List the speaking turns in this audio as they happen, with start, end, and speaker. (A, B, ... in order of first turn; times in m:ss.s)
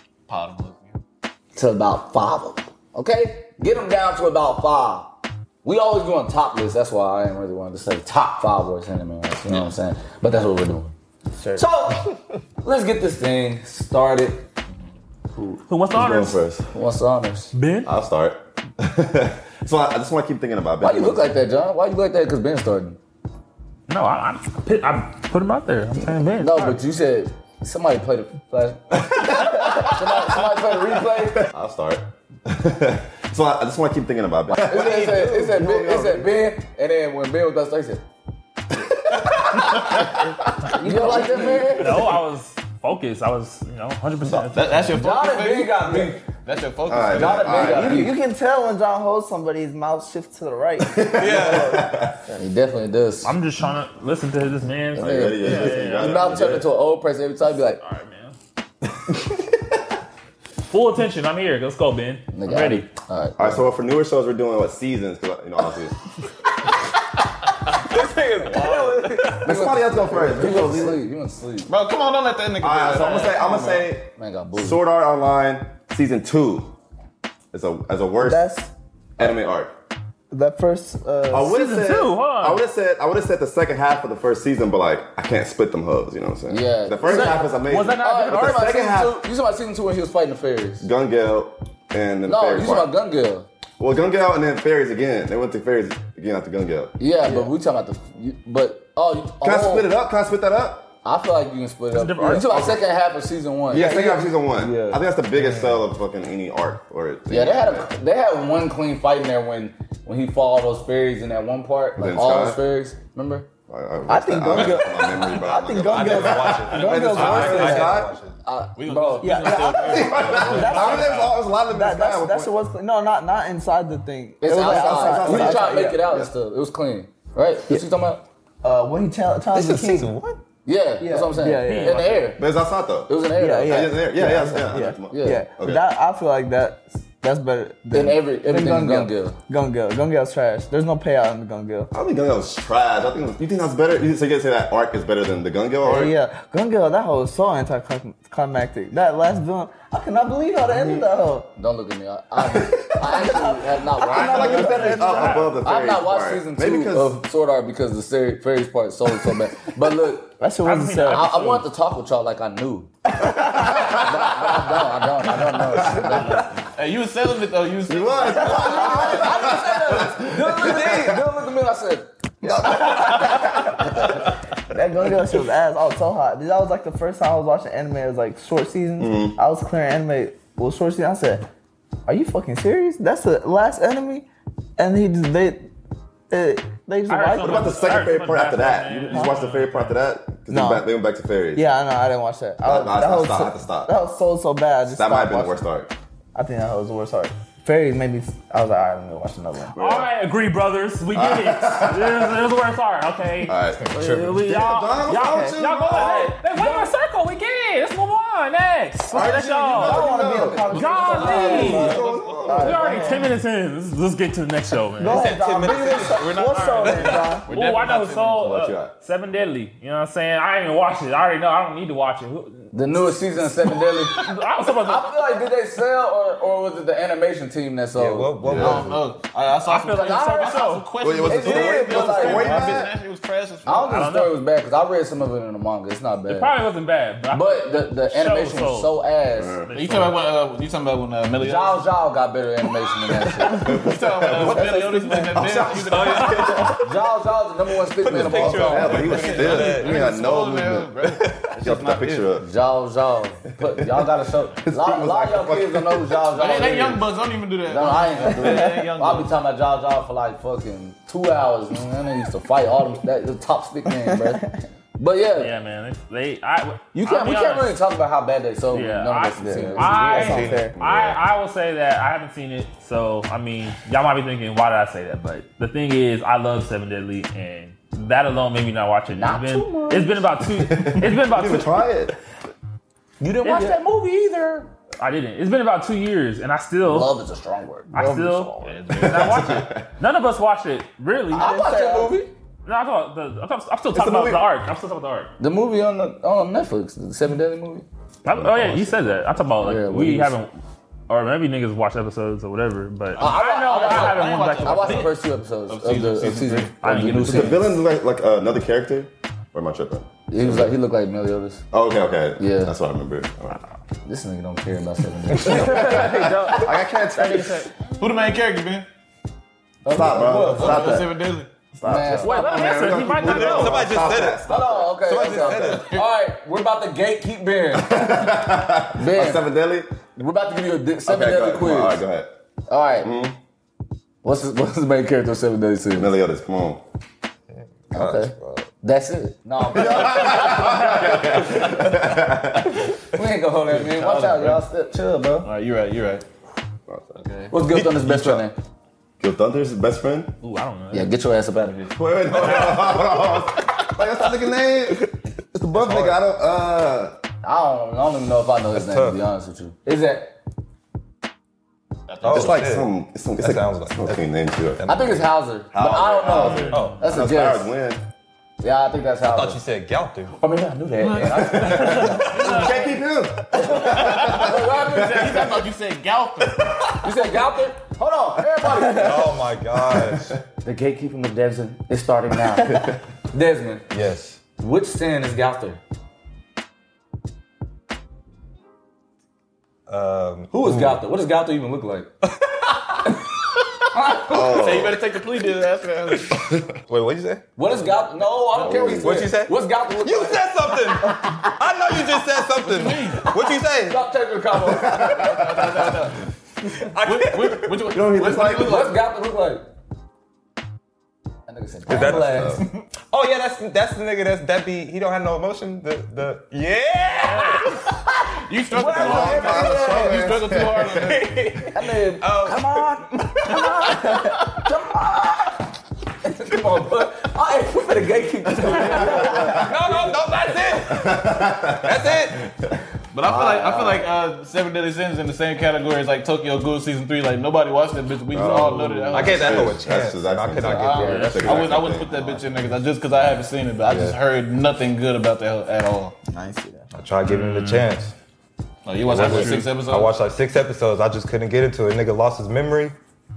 0:00.3-0:01.0 A
0:01.5-0:10.9 B
0:11.3-0:11.8 C
0:11.6-0:14.4 B
0:15.7-0:16.4 D
0:15.9-0:16.6 E
0:16.7-0:17.5 B
0:17.5-0:17.9 D
0:17.8-0:21.4 E
0:20.8-0:23.0 B
0:23.9-0:26.8 D
0:26.4-0:31.4 B
0:29.0-0:36.3 E
0:34.6-0:38.0 B
0:34.7-0:36.2 C
0:39.4-0:42.1 B
0:40.7-0:41.8 C
0:40.9-0:42.1 E
0:41.7-0:45.0 D
0:44.5-0:48.0 A
0:44.9-0:46.2 B
0:46.8-0:48.1 E
0:47.1-0:48.1 B
0:47.6-0:52.4 C
0:50.8-0:52.2 E
0:51.2-0:51.8 A
0:52.4-0:53.4 B
0:53.2-0:56.6 D
0:54.9-0:57.8 B
0:55.0-0:56.7 E
0:57.7-0:58.3 D
1:00.7-1:02.9 D
1:02.3-1:03.6 B
1:03.4-1:05.9 E
1:07.7-1:09.5 F
1:08.4-1:11.7 B
1:09.3-1:11.0 E
1:11.7-1:13.9 A
1:12.6-1:16.7 E
1:13.4-1:14.8 B
1:17.5-1:18.5 E
1:18.2-1:19.3 C
1:19.2-1:19.7 E
1:20.3-1:21.5 C
1:21.3-1:29.2 E
1:21.4-1:22.6 D
1:26.5-1:30.8 B
1:27.1-1:28.8 D
1:30.8-1:33.0 E
1:32.2-1:33.5 B
1:33.8-1:37.0 E
1:37.0-1:39.9 B
1:39.4-1:40.9 E
1:41.0-1:44.0 B
1:41.9-1:42.6 D
1:42.4-1:42.8 E
1:43.7-1:47.9 E
1:43.7-1:44.3 C
1:44.6-1:45.0 B
1:45.3-1:45.8 F
1:47.3-1:53.5 B
1:52.0-1:52.6 E
1:53.7-1:58.1 E
1:54.1-1:58.0 C
1:54.5-1:54.8 A
1:55.8-1:58.4 F
1:56.7-1:57.8 A
1:58.4-1:59.6 B
1:58.8-2:01.4 A
1:59.2-2:06.0 C
1:59.6-2:02.5 E
2:04.4-2:08.2 B
2:04.5-2:06.3 E
2:08.6-2:10.1 C
2:09.5-2:10.4 F
2:10.6-2:12.5 B
2:11.0-2:12.3 C
2:11.6-2:12.1 D
2:12.4-2:15.8 E
2:13.1-2:13.9 B
2:13.4-2:21.9 C
2:15.1-2:15.4 B
2:17.9-2:19.4 B
2:21.9-2:26.1 E
2:25.8-2:31.5 C
2:30.7-2:31.0 E
2:31.6-2:40.4 B
2:32.4-2:33.0 E
2:33.0-2:35.4 C
2:34.1-2:35.6 D
2:34.1-2:37.2 E
2:40.4-2:41.3 C
2:40.6-2:41.6 D
2:41.1-2:42.9 B
2:43.2-2:44.0 C
2:43.6-2:44.3 E
2:43.9-2:46.5 B
2:45.7-2:46.5 E
2:46.7-2:49.3 A
2:47.9-2:51.2 E
2:48.3-2:49.5 C
2:48.4-2:52.1 B
2:52.4-2:54.1 E
2:52.6-2:53.2 B
2:53.8-2:54.2 B
2:54.7-3:01.5 C
2:59.0-2:59.4 E
3:02.0-3:05.7 C
3:06.3-3:07.8 C
3:07.1-3:10.0 D
3:07.4-3:11.7 E
3:10.5-3:10.9 C
3:11.5-3:15.6 C
3:12.6-3:13.9 E
3:14.8-3:15.9 E
3:16.3-3:19.7 C
3:19.7-3:20.1 E
3:19.8-3:35.3 D
3:21.1-3:22.4 E
3:23.4-3:26.4 E
3:23.8-3:24.4 F
3:25.1-3:26.1 C
3:29.1-3:32.9 E
3:29.1-3:29.9 A
3:29.8-3:33.3 C
3:30.7-3:32.8 A
3:35.0-3:37.5 C
3:35.0-3:37.2 F
3:35.6-3:38.5 A
3:36.6-3:43.0 D
3:38.4-3:38.9 E
3:42.7-3:48.4 B
3:44.1-3:45.2 D
3:47.9-3:49.0 F
3:48.4-3:48.9 E
3:48.5-3:54.1 A
3:49.6-3:50.9 D
3:49.9-3:50.7 B
3:51.0-3:52.9 E
3:51.2-3:52.8 B
3:53.6-3:56.5 B
3:53.8-3:54.4 D
3:56.3-3:58.9 D
3:57.3-3:59.5 B
3:59.4-3:59.7 E
3:59.6-4:00.2 D
3:59.7-4:01.9 A
4:01.4-4:03.6 B
4:03.5-4:04.7 E
4:03.6-4:06.8 A
4:04.5-4:05.3 B
4:04.5-4:05.1 C
4:05.3-4:06.7 E
4:05.7-4:06.9 F
4:06.8-4:09.1 B
4:08.0-4:10.0 F
4:08.1-4:10.9 E
4:08.7-4:12.4 A
4:11.1-4:11.5 F
4:11.6-4:12.5 E
4:12.4-4:17.1 B
4:13.7-4:14.1 E
4:14.6-4:16.3 E
4:16.3-4:19.3 A
4:17.7-4:24.4 B
4:23.9-4:24.4 C
4:25.0-4:25.5 B
4:25.4-4:27.7 D
4:26.9-4:30.5 B
4:28.7-4:41.8 D
4:29.4-4:30.8 C
4:30.1-4:30.7 F
4:30.7-4:31.2 E
4:39.1-4:40.2 B
4:40.4-4:42.1 E
4:43.2-4:44.7 B
4:43.4-4:43.8 D
4:45.0-4:47.1 D
4:46.8-4:48.7 B
4:47.9-4:51.5 D
4:48.6-4:49.6 A
4:48.9-4:49.9 E
4:51.3-4:52.2 C
4:51.3-4:52.3 B
4:52.6-4:55.3 D
4:53.9-4:54.5 E
4:55.4-4:57.8 B
4:58.2-5:00.5 D
4:58.3-4:59.2 E
4:59.6-5:00.4 B
5:01.1-5:05.1 D
5:03.2-5:05.2 A
5:03.2-5:07.7 B
5:05.7-5:07.1 A
5:06.8-5:07.8 D
5:07.2-5:10.8 E
5:10.3-5:11.6 B
5:11.7-5:13.7 E
5:12.4-5:12.7 B
5:14.0-5:16.5 B
5:15.4-5:17.7 D
5:15.5-5:17.7 E
5:17.9-5:18.9 A
5:19.8-5:21.1 B
5:19.9-5:21.1 E
5:20.0-5:21.5 A
5:21.8-5:22.5 C
5:21.8-5:22.7 B
5:21.8-5:25.6 E
5:22.2-5:23.9 D
5:23.2-5:24.5 F
5:24.5-5:28.3 B
5:25.0-5:26.0 F
5:25.6-5:26.0 A
5:27.7-5:29.9 E
5:28.9-5:29.4 B
5:30.2-5:32.0 B
5:31.0-5:32.3 E
5:32.7-5:33.1 B
5:33.0-5:33.4 E
5:34.2-5:36.1 B
5:35.9-5:36.8 E
5:37.6-5:38.7 F
5:37.9-5:41.4 B
5:39.7-5:42.9 E
5:43.0-5:45.5 B
5:43.7-5:44.6 A
5:45.4-5:46.2 A
5:46.9-5:47.2 E
5:47.2-5:47.5 A
5:47.5-5:48.5 B
5:47.7-5:48.4 F
5:49.2-5:50.3 E
5:50.4-5:51.2 D
5:50.9-5:52.0 B
5:51.9-5:57.1 E
5:57.4-6:00.4 B
5:58.7-5:59.2 F
6:02.1-6:02.7 A
6:02.2-6:05.2 F
6:02.3-6:05.2 E
6:04.8-6:07.7 B
6:05.7-6:08.0 E
6:06.4-6:06.9 D
6:06.4-6:06.9 A
6:06.7-6:07.0 F
6:08.6-6:09.6 B
6:09.2-6:10.3 F
6:10.3-6:12.5 B
6:11.0-6:12.2 A
6:11.6-6:12.9 D
6:12.2-6:15.6 E
6:13.5-6:15.5 B
6:13.7-6:16.8 A
6:17.0-6:19.4 B
6:18.9-6:20.3 F
6:20.6-6:23.8 B
6:23.9-6:24.4 F
6:24.6-6:25.8 B
6:29.9-6:31.0 F
6:30.5-6:32.1 B
6:33.9-6:34.7 B
6:34.3-6:35.0 E
6:34.3-6:36.5 A
6:36.9-6:37.4 F
6:37.6-6:41.4 B
6:38.5-6:39.0 A
6:38.6-6:39.3 E
6:39.0-6:44.0 F
6:42.6-6:43.2 A
6:43.2-6:45.5 B
6:44.6-6:45.9 E
6:45.0-6:46.2 A
6:46.8-6:47.9 F
6:47.0-6:49.0 A
6:47.9-6:48.9 E
6:48.5-6:49.6 B
6:51.5-6:52.7 B
6:51.9-6:52.6 E
6:51.9-6:57.8 F
6:58.5-7:01.4 A
6:58.7-7:00.2 B
6:58.9-7:01.2 E
7:00.8-7:02.9 F
7:01.7-7:05.7 B
7:03.9-7:04.4 C
7:06.2-7:10.8 B
7:08.5-7:09.7 E
7:08.8-7:12.5 F
7:10.8-7:12.1 E
7:13.1-7:19.8 A
7:13.2-7:14.1 B
7:18.3-7:22.4 E
7:19.1-7:21.2 F
7:20.6-7:21.8 B
7:20.7-7:26.2 A
7:21.0-7:21.5 D
7:23.8-7:24.2 F
7:26.3-7:26.9 C
7:26.9-7:28.1 F
7:27.3-7:27.8 D
7:28.8-7:30.1 A
7:29.0-7:32.9 F